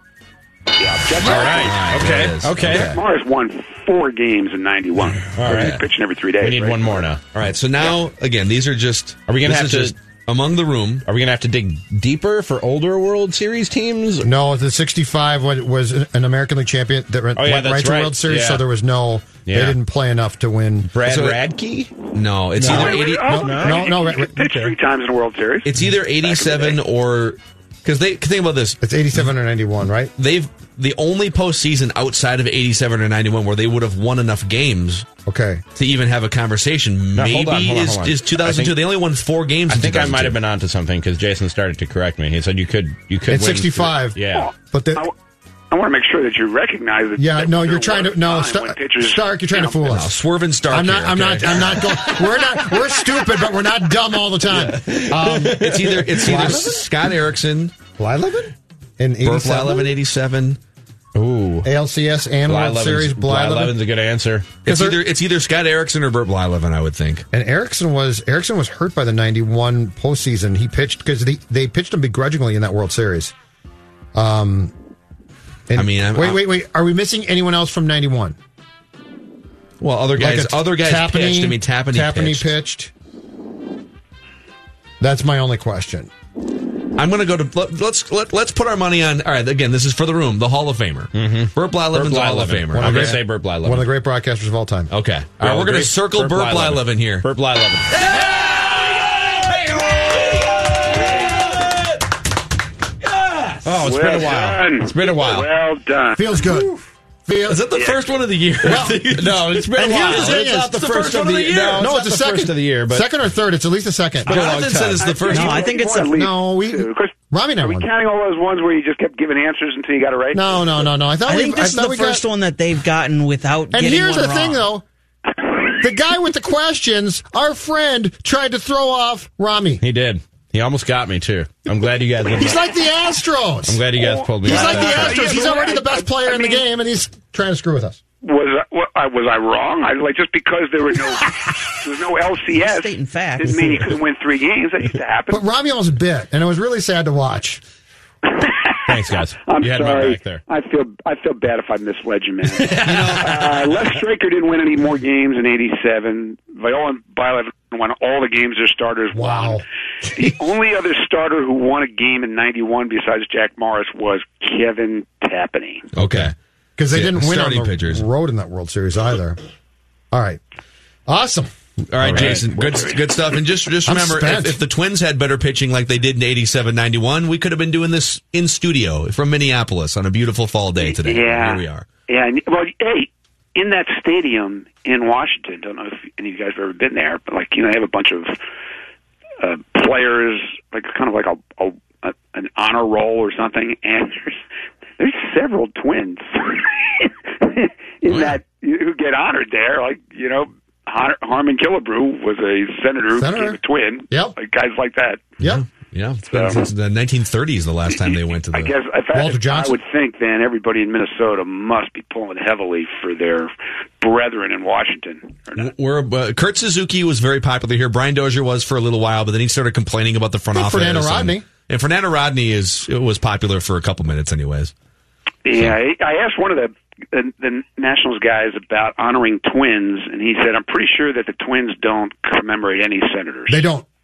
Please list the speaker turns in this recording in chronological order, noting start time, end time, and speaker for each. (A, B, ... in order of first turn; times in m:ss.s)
0:00.8-0:01.7 A
0:01.2-0:02.9 B
0:01.3-0:03.0 C
0:02.9-0:07.1 A
0:05.4-0:05.8 B
0:05.4-0:05.8 C
0:06.4-0:07.3 B
0:07.3-0:11.0 C
0:09.3-0:10.0 B
0:11.1-0:14.3 B
0:14.2-0:20.9 D
0:17.4-0:18.6 B
0:19.5-0:19.8 B
0:20.9-0:21.9 B
0:21.0-0:21.5 C
0:22.1-0:23.4 C
0:22.6-0:24.0 B
0:22.7-0:26.8 A
0:22.7-0:24.8 D
0:25.6-0:28.8 C
0:28.8-0:30.1 D
0:30.2-0:35.1 C
0:35.3-0:35.6 D
0:35.8-0:40.4 C
0:37.2-0:38.8 B
0:39.7-0:44.5 B
0:43.3-0:44.2 D
0:44.3-0:45.1 A
0:44.7-0:45.1 D
0:45.7-0:49.8 A
0:47.2-0:50.1 D
0:49.9-0:51.8 C
0:50.7-0:55.6 D
0:54.5-0:54.8 C
0:54.7-0:56.7 B
0:55.5-0:57.7 C
0:56.2-0:56.8 D
0:58.0-0:59.9 D
0:59.2-1:00.6 C
1:01.2-1:01.7 B
1:01.6-1:03.8 D
1:02.5-1:04.5 B
1:04.6-1:05.0 D
1:04.6-1:07.3 C
1:07.3-1:13.3 D
1:14.2-1:14.7 D
1:15.7-1:18.4 D
1:15.8-1:16.4 C
1:19.8-1:22.5 C
1:20.2-1:22.9 D
1:25.0-1:26.1 D
1:27.0-1:33.2 C
1:31.2-1:33.9 B
1:32.7-1:34.9 D
1:34.9-1:37.2 C
1:35.4-1:38.0 B
1:37.9-1:41.0 C
1:43.6-1:45.5 B
1:43.8-1:46.4 A
1:46.2-1:46.7 D
1:47.3-1:47.6 D
1:47.5-1:51.9 C
1:48.6-1:49.0 D
1:49.2-1:53.1 B
1:49.8-1:54.3 D
1:54.2-1:55.1 B
1:54.3-1:55.7 C
1:55.0-2:00.7 A
1:55.2-1:56.3 E
1:56.2-1:57.9 D
2:00.3-2:02.2 D
2:01.3-2:04.6 E
2:03.7-2:04.8 D
2:05.8-2:09.8 D
2:09.8-2:12.6 B
2:12.4-2:13.8 D
2:13.7-2:15.6 B
2:14.0-2:16.6 A
2:14.4-2:18.0 D
2:18.2-2:25.4 A
2:22.6-2:24.0 E
2:25.3-2:27.6 D
2:28.4-2:45.9 A
2:28.9-2:30.4 B
2:32.8-2:33.5 C
2:32.9-2:33.6 B
2:39.1-2:39.6 D
2:46.0-2:46.3 C
2:46.0-2:46.3 B
2:46.8-2:49.4 D
2:46.9-2:48.0 C
2:50.1-2:50.4 D
2:51.1-2:51.5 D
2:51.9-3:01.9 C
2:52.0-2:52.8 B
2:52.1-2:52.4 D
2:52.7-2:53.0 A
2:53.9-2:54.6 D
3:00.8-3:08.4 A
3:09.4-3:14.4 A
3:15.0-3:25.3 A
3:18.1-3:18.4 C
3:23.2-3:23.6 D
3:25.4-3:28.7 C
3:26.3-3:26.6 A
3:27.9-3:35.7 A
3:29.1-3:29.8 D
3:35.6-3:44.7 C
3:40.5-3:41.4 D
3:45.4-3:53.6 A
3:53.5-3:53.9 D